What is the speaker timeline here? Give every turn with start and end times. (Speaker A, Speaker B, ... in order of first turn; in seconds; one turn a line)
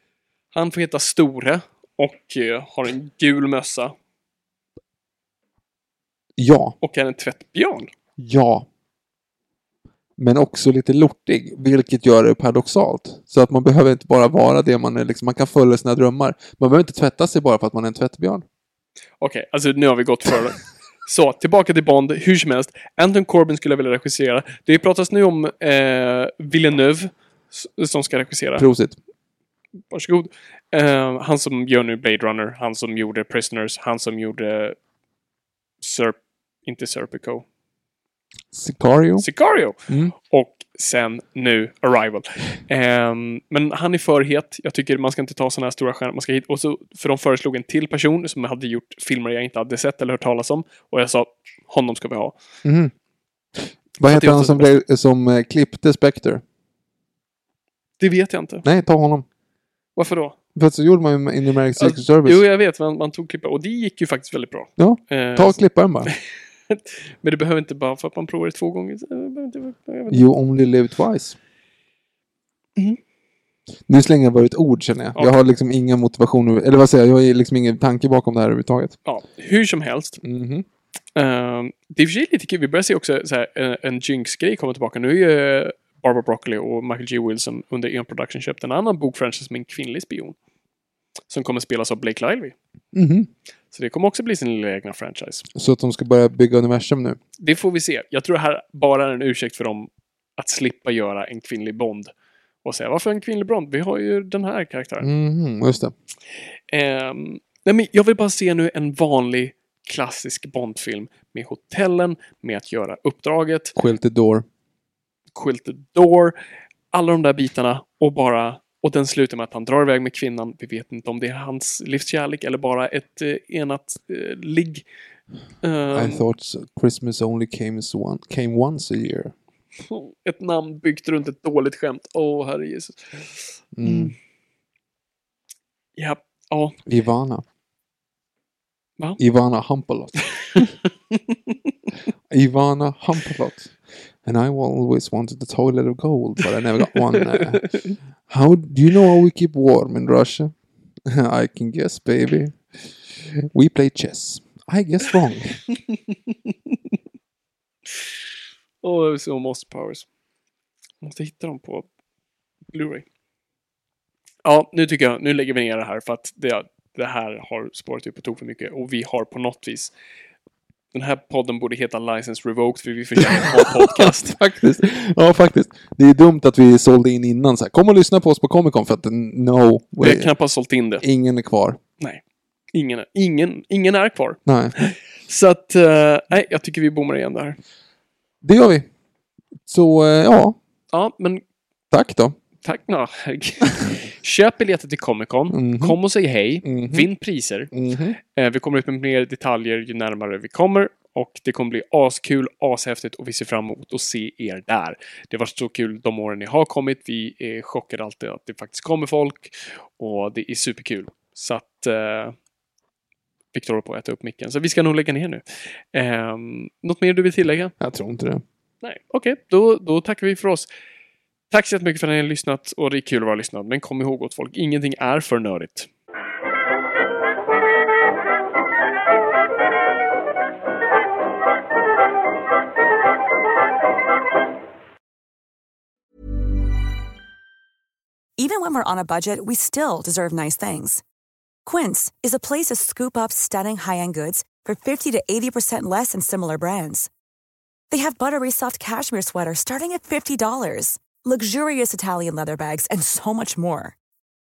Speaker A: 0.5-3.9
Speaker B: 6.4-6.8
Speaker A: 6.8-7.9
Speaker B: 8.2-8.7
Speaker B: 10.2-18.4
Speaker A: 19.2-28.7
Speaker B: 28.6-29.0
Speaker A: 29.9-34.8
Speaker A: 35.8-37.4
Speaker B: 38.5-39.3
Speaker A: 39.2-52.4
Speaker B: 39.9-40.1
Speaker B: 52.6-52.9
Speaker B: 53.6-56.4
Speaker A: 54.1-54.7
Speaker A: 58.0-58.7
Speaker B: 58.6-59.3
Speaker A: 60.0-60.4
Speaker B: 60.5-62.4
Speaker A: 61.8-70.2
Speaker B: 64.8-66.1
Speaker B: 70.1-71.4
Speaker B: 73.9-79.0
Speaker A: 79.1-80.2
Speaker B: 80.2-80.7
Speaker A: 81.2-90.4
Speaker A: 91.3-92.5
Speaker B: 92.9-93.3
Speaker A: 93.7-95.5
Speaker B: 95.5-97.2
Speaker A: 97.4-102.1
Speaker A: 102.6-105.1
Speaker B: 105.0-105.9
Speaker A: 106.7-113.8
Speaker B: 113.8-114.5
Speaker A: 115.3-116.3
Speaker A: 116.9-124.8
Speaker A: 125.6-126.2
Speaker B: 125.9-129.3
Speaker A: 129.9-134.1
Speaker B: 133.8-134.2
Speaker A: 136.0-136.8
Speaker B: 136.9-137.4
Speaker B: 139.2-140.7
Speaker A: 140.6-141.3
Speaker B: 142.3-150.5
Speaker A: 147.1-147.9
Speaker B: 151.1-152.6
Speaker B: 153.2-155.6
Speaker A: 156.1-156.5
Speaker A: 158.8-160.1
Speaker A: 161.0-161.9
Speaker A: 162.7-163.1
Speaker A: 164.4-169.9
Speaker A: 170.9-174.4
Speaker B: 173.2-180.3
Speaker A: 180.0-181.1
Speaker B: 181.0-181.8
Speaker A: 182.7-187.6
Speaker B: 184.5-184.8
Speaker B: 188.4-188.9
Speaker B: 189.7-190.6
Speaker A: 190.9-191.4
Speaker B: 191.9-192.3
Speaker A: 192.6-197.7
Speaker B: 195.5-196.0
Speaker B: 196.6-197.1
Speaker B: 197.7-198.2
Speaker A: 198.3-212.3
Speaker A: 213.5-217.7
Speaker B: 217.8-218.4
Speaker A: 218.8-220.7
Speaker A: 221.5-225.9
Speaker C: 238.4-241.0
Speaker C: 241.7-247.1
Speaker C: 247.9-254.0